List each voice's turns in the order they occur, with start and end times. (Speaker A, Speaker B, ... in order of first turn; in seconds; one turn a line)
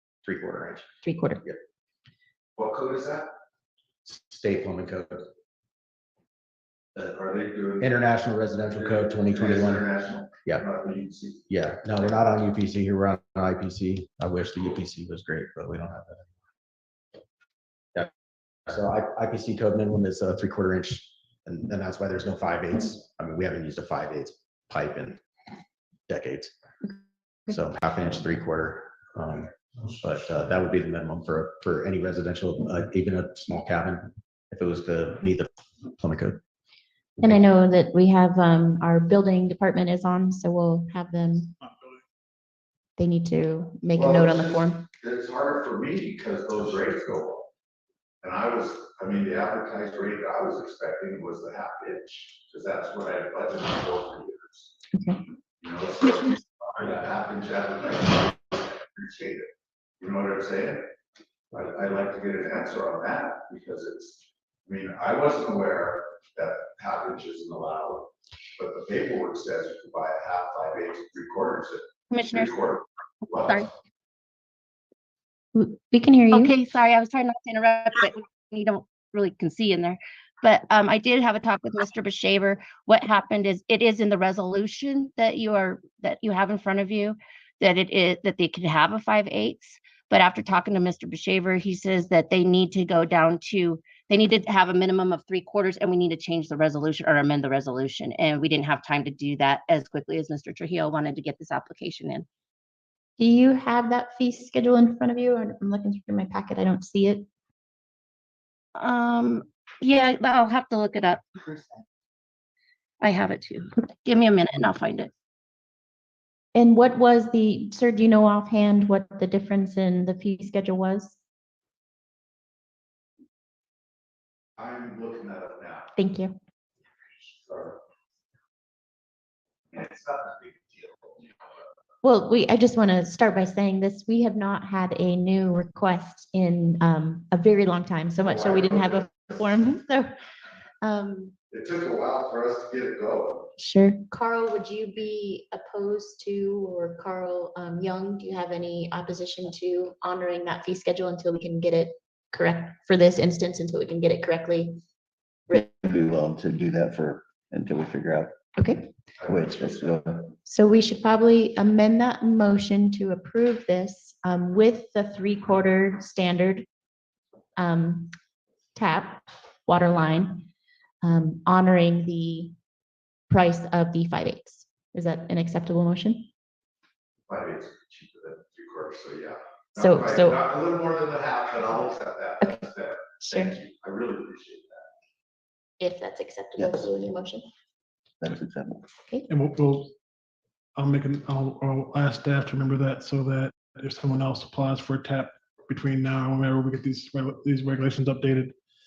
Speaker A: 0.2-0.9
Speaker B: 1.0-1.4
Speaker C: 2.6-3.3
Speaker A: 4.0-5.3
Speaker C: 7.0-8.0
Speaker A: 7.8-9.8
Speaker C: 8.7-11.5
Speaker A: 11.5-16.3
Speaker A: 18.7-25.2
Speaker A: 26.1-26.5
Speaker A: 27.5-36.4
Speaker B: 37.2-41.6
Speaker D: 41.7-42.0
Speaker B: 43.0-44.9
Speaker C: 43.9-47.5
Speaker C: 48.2-54.8
Speaker B: 54.9-55.2
Speaker C: 55.6-60.9
Speaker C: 61.5-73.7
Speaker E: 72.1-72.6
Speaker E: 73.3-73.7
Speaker B: 75.5-76.5
Speaker E: 76.3-102.3
Speaker B: 103.2-107.3
Speaker E: 108.8-111.8
Speaker E: 113.0-115.1
Speaker B: 116.5-121.2
Speaker C: 124.6-125.9
Speaker B: 126.0-126.4
Speaker C: 127.3-127.8
Speaker C: 129.7-131.3
Speaker B: 132.0-140.2
Speaker C: 138.2-139.3
Speaker B: 140.8-141.4
Speaker C: 141.5-143.5
Speaker B: 143.6-154.8
Speaker F: 155.5-158.3
Speaker B: 158.6-158.9
Speaker C: 159.2-160.0
Speaker F: 159.3-160.3
Speaker B: 160.4-166.7
Speaker B: 167.6-168.2
Speaker B: 168.8-170.5
Speaker B: 171.0-172.6
Speaker B: 173.3-176.3
Speaker C: 177.3-184.9
Speaker B: 179.8-180.4
Speaker B: 182.4-182.7
Speaker B: 183.2-183.6
Speaker B: 185.8-187.5
Speaker F: 186.6-186.9
Speaker F: 188.2-188.9
Speaker D: 189.3-189.9
Speaker D: 190.8-198.6